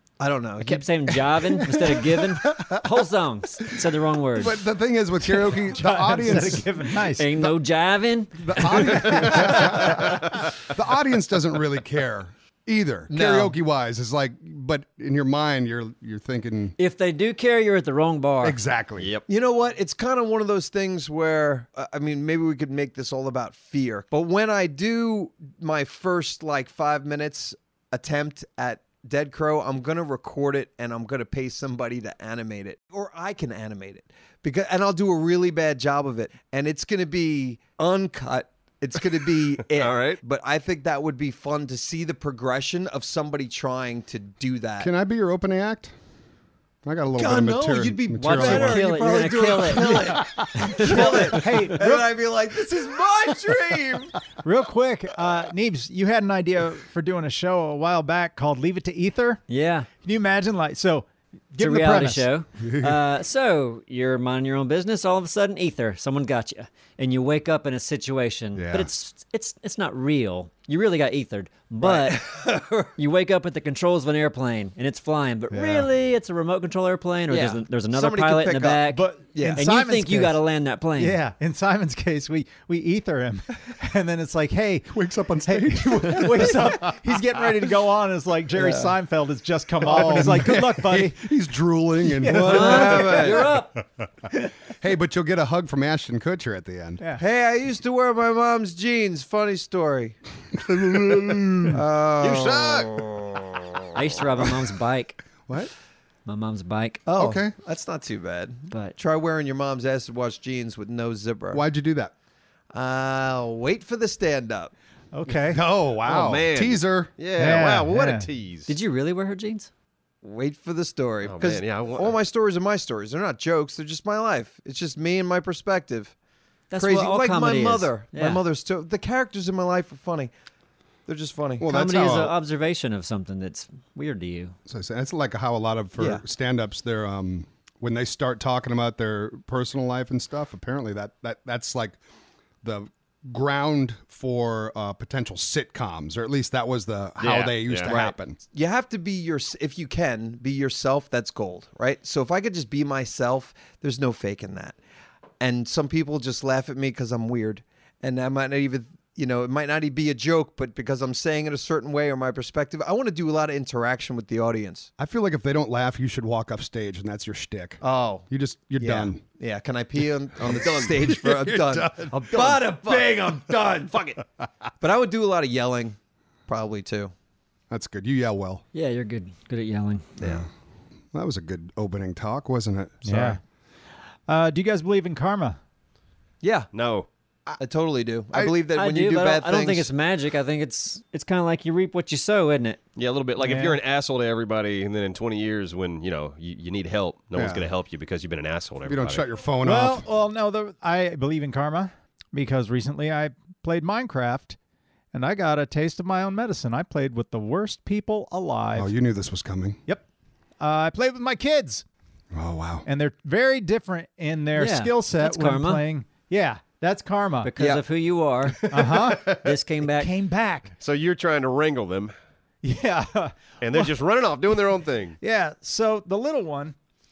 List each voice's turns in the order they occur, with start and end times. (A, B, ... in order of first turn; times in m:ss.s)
0:00.2-0:01.1 A
0:00.6-0:04.6 B
0:01.4-0:03.0 C
0:04.4-0:07.5 C
0:05.2-0:07.3 D
0:07.1-0:10.2 B
0:08.4-0:16.8 C
0:09.0-0:10.5 E
0:13.1-0:13.6 A
0:16.8-0:18.6 B
0:18.4-0:19.1 C
0:19.0-0:19.2 E
0:19.3-0:44.9 A
0:39.6-0:40.2 E
0:44.8-0:45.9 C
0:46.8-0:49.0 C
0:47.1-0:54.1 A
0:48.2-0:51.2 B
0:49.8-0:51.0 C
0:50.8-0:52.1 D
0:54.4-0:59.4 D
0:59.5-0:59.9 B
1:00.0-1:02.3 D
1:01.6-1:12.4 B
1:02.6-1:03.0 C
1:08.6-1:08.9 C
1:11.8-1:12.9 A
1:13.0-1:21.2 B
1:15.5-1:15.9 C
1:17.3-1:19.7 A
1:18.9-1:20.4 D
1:21.0-1:24.9 D
1:24.9-1:27.4 C
1:25.4-1:31.3 D
1:28.6-1:28.9 A
1:29.8-1:33.6 C
1:32.1-1:33.2 D
1:32.3-1:33.6 A
1:32.3-1:33.8 B
1:34.7-1:37.0 C
1:37.2-1:40.2 A
1:40.5-1:41.8 C
1:41.7-1:43.5 A
1:42.2-1:43.0 E
1:43.9-1:45.4 B
1:46.3-1:47.0 B
1:47.0-1:51.6 A
1:47.2-1:47.5 C
1:48.7-1:49.0 B
1:51.5-1:52.1 C
1:52.7-1:54.7 A
1:55.1-1:55.6 D
1:55.5-1:57.1 C
1:56.0-1:58.7 E
1:57.4-1:58.3 D
1:58.7-1:59.7 B
2:00.2-2:06.1 A
2:01.2-2:02.2 E
2:06.7-2:08.4 B
2:06.8-2:10.3 A
2:11.1-2:11.7 A
2:11.6-2:12.4 C
2:11.7-2:14.6 B
2:14.7-2:22.0 C
2:16.0-2:16.2 A
2:22.6-2:28.4 C
2:27.2-2:27.9 E
2:27.9-2:34.8 A
2:35.4-2:44.9 A
2:45.0-2:49.2 C
2:47.8-2:48.3 A
2:48.8-2:54.2 A
2:50.4-2:53.6 C
2:54.8-2:56.0 A
2:56.5-2:57.1 A
2:57.7-2:58.6 C
2:58.7-3:00.2 B
3:00.2-3:00.5 A
3:00.2-3:00.5 C
3:01.1-3:03.4 C
3:03.0-3:03.4 D
3:04.3-3:05.6 D
3:06.4-3:06.7 A
3:06.7-3:07.1 E
3:07.6-3:09.9 A
3:08.3-3:08.6 C
3:08.7-3:12.8 B
3:13.0-3:19.3 E
3:13.4-3:13.8 D
3:17.3-3:17.7 C
3:18.9-3:20.1 C
3:19.6-3:24.6 D
3:25.1-3:28.9 D
3:28.8-3:29.8 C
3:30.6-3:31.9 D
3:32.3-3:32.8 C
3:32.8-3:37.5 D
3:34.6-3:35.8 B
3:37.4-3:40.1 B
3:37.6-3:37.8 A
3:38.6-3:39.4 E
3:38.7-3:39.4 D
3:40.0-3:40.7 D
3:40.8-3:42.1 E
3:42.6-3:43.9 D
3:43.6-3:45.2 E
3:45.2-3:46.8 D